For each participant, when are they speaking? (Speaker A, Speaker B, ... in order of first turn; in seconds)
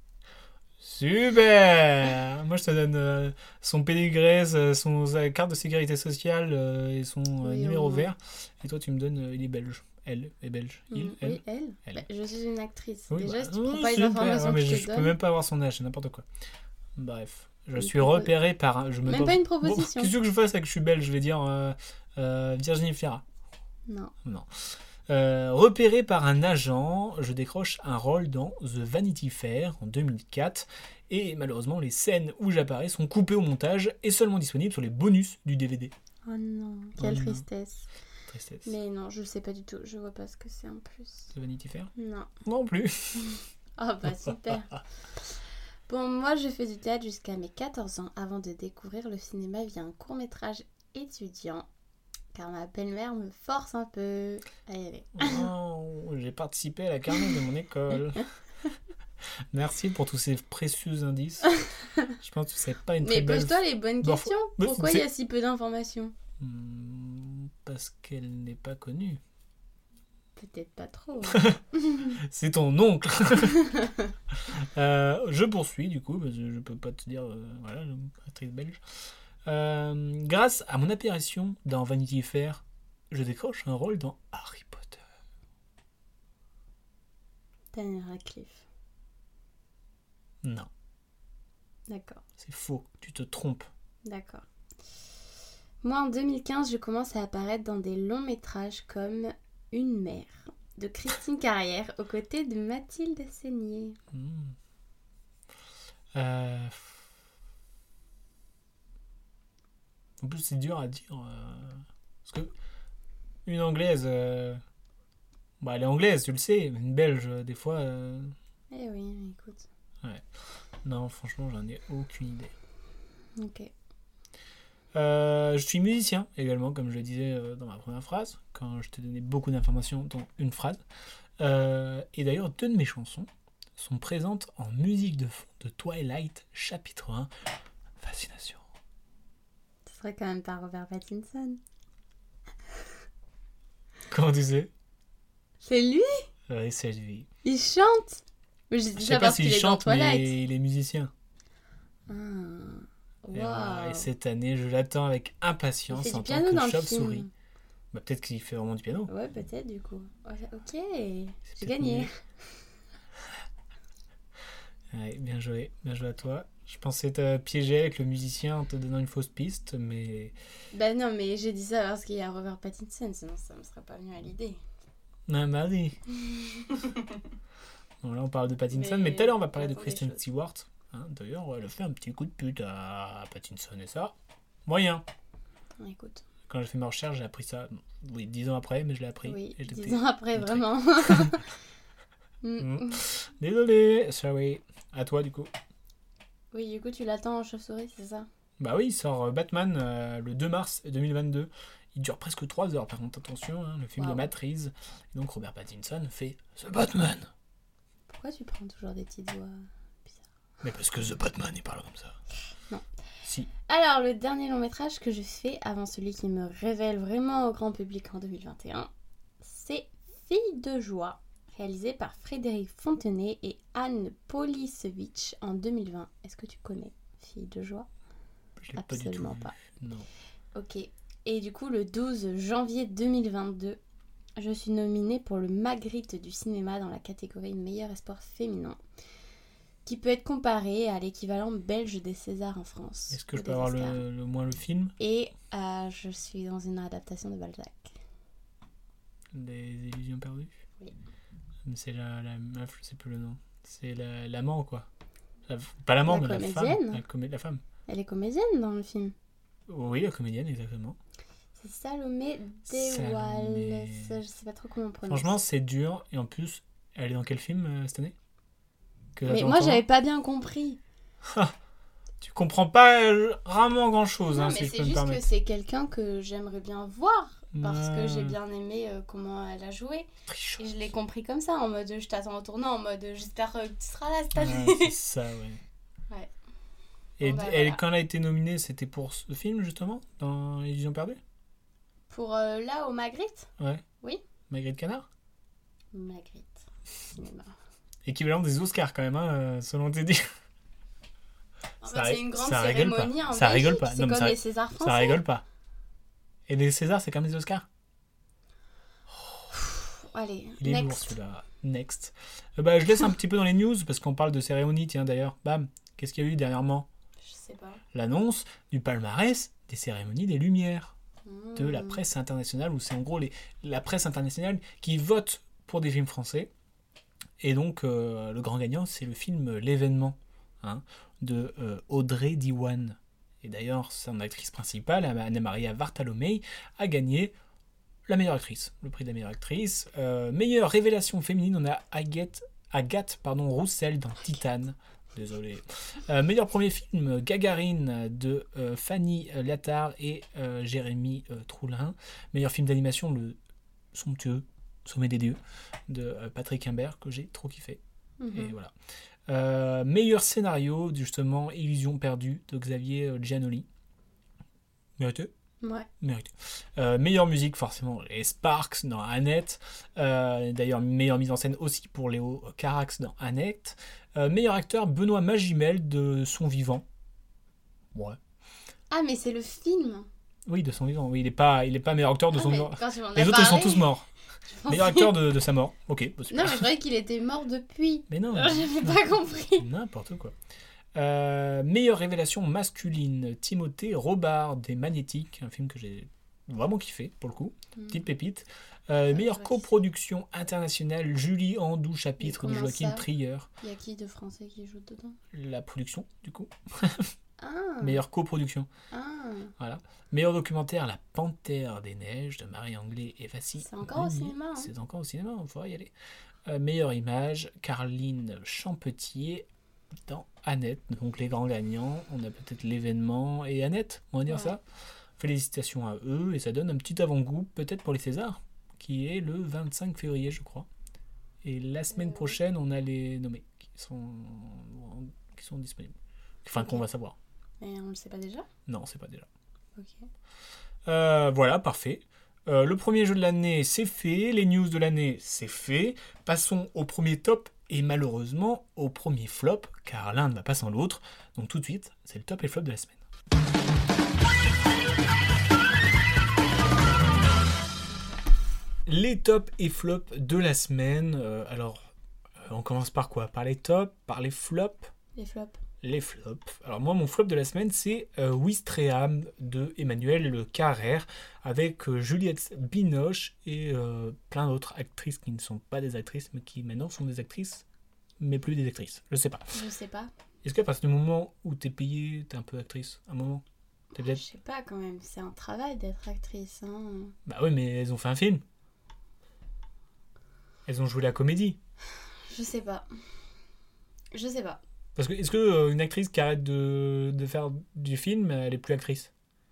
Speaker A: 0.8-12.0, 13.1-16.2, 17.0-23.2, 24.2-35.9, 37.0-37.5, 38.3-38.8, 41.3-41.9, 42.5-43.2, 44.1-44.8, 55.2-58.3, 59.5-61.5, 62.2-65.0, 66.4-69.2, 71.3-71.6, 72.2-73.6, 74.4-78.8, 79.5-85.0, 90.4-90.7, 92.4-93.7, 104.1-104.5, 106.1-107.0, 110.2-112.5, 113.5-114.6, 115.6-118.3, 120.8-122.5, 124.9-130.8, 131.4-137.3, 138.0-138.6, 144.1-144.7, 146.5-147.3, 149.0-151.1, 153.3-157.3, 157.9-159.1, 161.5-162.1, 164.9-170.3, 175.3-176.0, 178.0-184.2, 184.7-185.1, 186.5-191.4, 192.6-195.5, 198.6-207.3, 210.6-212.2, 213.2-213.5, 228.6-230.1, 243.1-244.9, 249.3-250.6, 251.7-254.9, 255.5-257.6, 259.7-261.0, 262.7-264.2, 265.1-268.1, 269.2-269.8, 271.2-271.5, 272.2-275.3, 277.5-278.4, 280.3-280.7, 284.4-285.6, 287.2-291.2, 293.6-293.8, 294.5-295.1, 298.1-300.3, 301.8-305.4, 306.5-307.6, 310.6-316.9, 317.9-320.9, 321.6-326.5, 327.4-337.3, 338.1-353.4, 353.9-357.8, 358.3-358.7, 359.3-363.7, 365.0-365.3, 366.0-376.9, 377.9-378.2, 380.5-384.1, 384.7-386.7, 388.1-390.4, 390.9-403.5, 405.3-407.1, 407.8-408.7, 409.6-415.9, 416.5-419.5, 420.1-424.6, 425.2-430.7, 431.4-437.2, 438.7-439.3, 440.9-453.0, 458.9-464.9, 465.8-477.6, 478.2-479.5, 480.4-483.4, 483.9-484.2, 487.3-488.4, 490.7-491.6, 495.0-499.1
Speaker B: 7.4-8.1, 10.9-15.2, 17.8-18.3, 19.1-20.1, 23.9-24.1, 36.3-37.9, 38.6-41.3, 42.0-42.3, 43.8-44.7, 45.9-51.7, 52.3-55.5, 63.0-66.1, 70.4-72.2, 73.6-74.1, 87.7-88.6, 91.9-92.2, 94.0-94.5, 95.8-104.0, 118.7-119.7, 123.4-123.7, 139.9-141.6, 145.6-146.2, 147.4-150.4, 152.1-154.1, 155.9-157.3, 159.1-162.6, 170.7-174.6, 176.3-177.2, 178.7-180.2, 185.8-186.2, 189.2-191.4, 192.4-193.0, 196.5-198.3, 204.0-204.3, 208.1-210.2, 213.7-218.9, 219.4-227.9, 228.8-229.6, 230.6-233.8, 234.4-238.8, 239.8-244.0, 245.0-248.0, 256.1-257.0, 257.9-259.1, 261.6-265.4, 269.3-270.8, 274.3-284.9, 287.2-287.8, 292.1-293.5, 295.9-297.5, 301.8-305.2, 309.6-311.1, 317.2-317.8, 321.2-322.1, 358.2-358.6, 365.6-365.9, 378.9-380.1, 382.3-383.9, 384.5-385.1, 386.3-389.7, 397.8-398.0, 399.1-399.8, 402.2-403.1, 403.6-405.2, 407.4-408.0, 408.9-409.5, 413.6-414.7, 424.3-424.6, 431.9-432.4, 437.6-438.5, 439.8-440.1, 465.2-465.6, 479.5-480.1, 483.9-487.1, 492.3-492.9, 494.1-494.6